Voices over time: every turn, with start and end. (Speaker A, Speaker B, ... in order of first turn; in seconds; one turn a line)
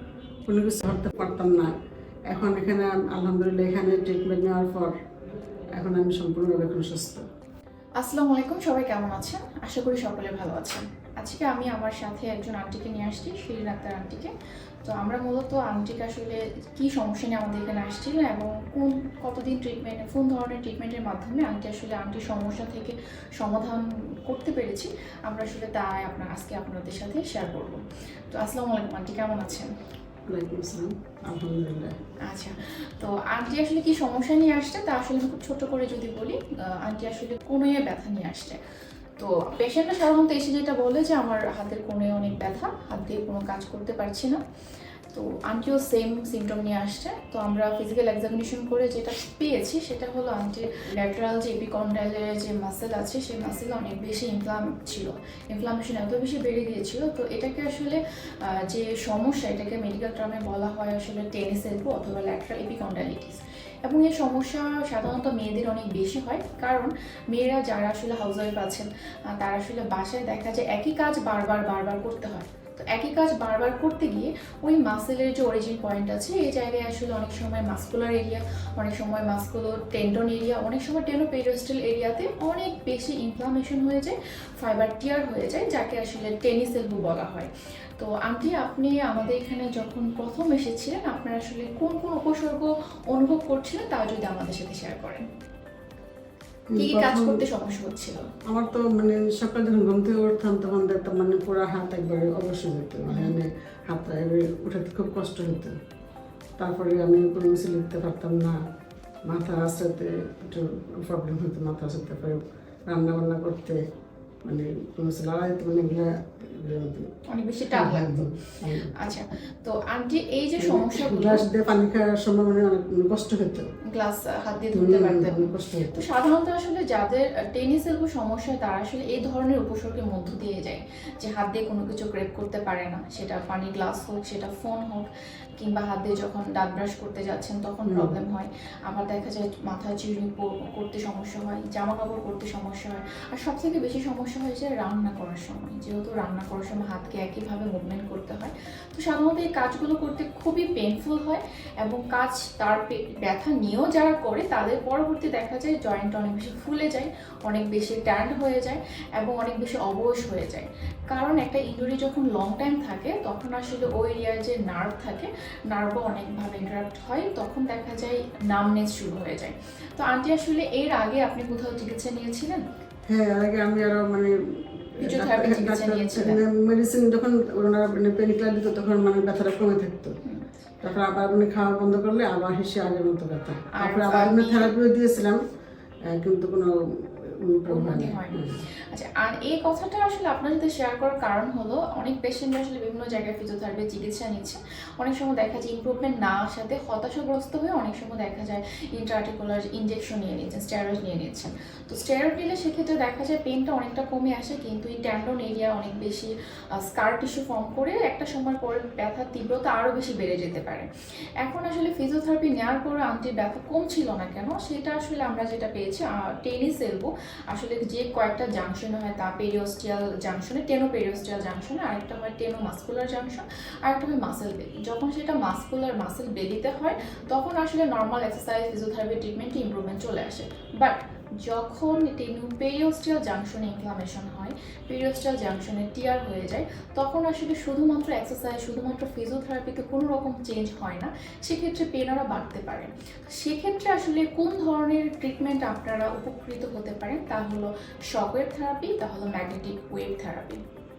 Speaker A: 0.5-1.7
Speaker A: 2.3-5.0
Speaker A: 5.8-7.2
Speaker B: 8.0-14.3
Speaker B: 14.8-29.7
Speaker A: 30.3-32.0
Speaker B: 32.2-38.6
Speaker B: 39.2-44.4
Speaker B: 45.1-95.2
Speaker A: 96.7-97.4
Speaker B: 96.8-98.3
Speaker A: 98.5-105.8
Speaker B: 103.1-103.4
Speaker A: 106.6-108.6
Speaker A: 109.3-113.8
Speaker A: 114.5-117.1
Speaker B: 117.3-118.3
Speaker A: 117.7-119.0
Speaker B: 118.9-121.5
Speaker A: 120.6-123.7
Speaker B: 123.8-135.1
Speaker A: 124.7-126.0
Speaker B: 135.6-172.6
Speaker A: 137.9-138.1
Speaker A: 173.1-174.3
Speaker A: 175.0-180.2
Speaker B: 175.0-176.4
Speaker A: 180.8-185.4
Speaker B: 183.8-184.7
Speaker A: 186.1-188.6
Speaker B: 187.7-210.9
Speaker B: 211.4-250.6